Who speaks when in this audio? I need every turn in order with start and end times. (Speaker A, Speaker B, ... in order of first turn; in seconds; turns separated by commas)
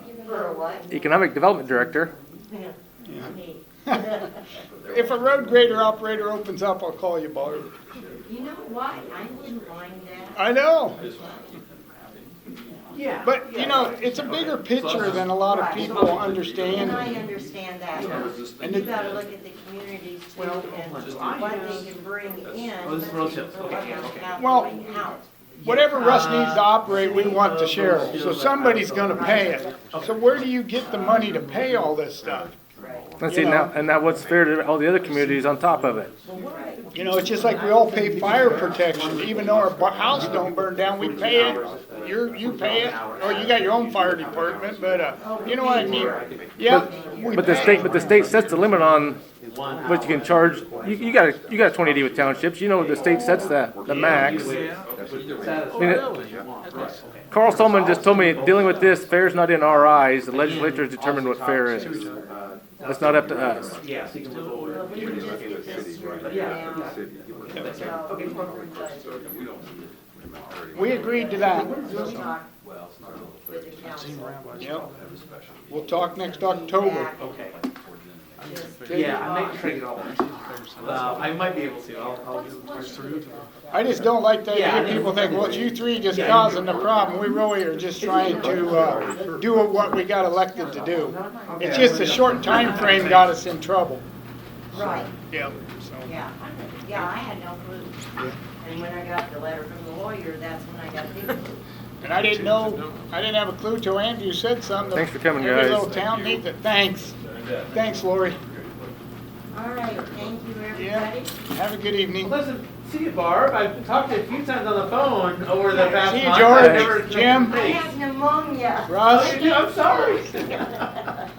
Speaker A: 0.2-0.8, Speaker B: 0.9-2.1, Speaker C: 3.1-3.3, Speaker C: 4.9-7.8, Speaker A: 8.3-11.4, Speaker C: 10.4-11.0, Speaker D: 12.9-13.9, Speaker C: 13.2-17.1, Speaker A: 16.7-25.3, Speaker C: 18.6-18.9, Speaker D: 20.7-21.1, Speaker D: 22.9-24.1, Speaker C: 24.4-24.7, Speaker D: 25.6-26.8, Speaker C: 25.6-32.5, Speaker D: 27.4-28.2, Speaker B: 33.2-36.1, Speaker C: 33.2-33.7, Speaker C: 36.9-48.1, Speaker A: 45.6-46.1, Speaker B: 46.7-49.2, Speaker B: 49.8-54.5, Speaker C: 53.9-54.4, Speaker D: 54.3-54.6, Speaker D: 55.4-56.6, Speaker B: 55.8-56.1, Speaker B: 57.3-62.0, Speaker B: 62.8-63.7, Speaker D: 63.8-64.5, Speaker A: 64.7-66.9, Speaker A: 67.5-69.0, Speaker C: 70.7-72.2, Speaker A: 71.1-72.4, Speaker A: 73.5-74.7, Speaker C: 74.6-74.9, Speaker C: 75.7-77.1, Speaker A: 76.8-77.1, Speaker A: 78.5-79.2, Speaker D: 78.9-80.1, Speaker D: 80.8-82.3, Speaker C: 83.7-94.0, Speaker D: 84.5-85.5, Speaker D: 86.1-86.5, Speaker D: 91.6-93.0, Speaker A: 94.7-95.1, Speaker C: 95.3-96.1, Speaker A: 96.0-98.0, Speaker A: 98.6-101.5, Speaker C: 102.0-107.2, Speaker B: 104.9-105.9, Speaker C: 107.7-108.4, Speaker A: 109.5-111.3, Speaker C: 110.7-112.4, Speaker D: 112.2-117.9, Speaker C: 115.9-117.5, Speaker B: 116.5-117.0, Speaker A: 117.1-120.8, Speaker C: 118.9-119.7, Speaker D: 119.0-120.6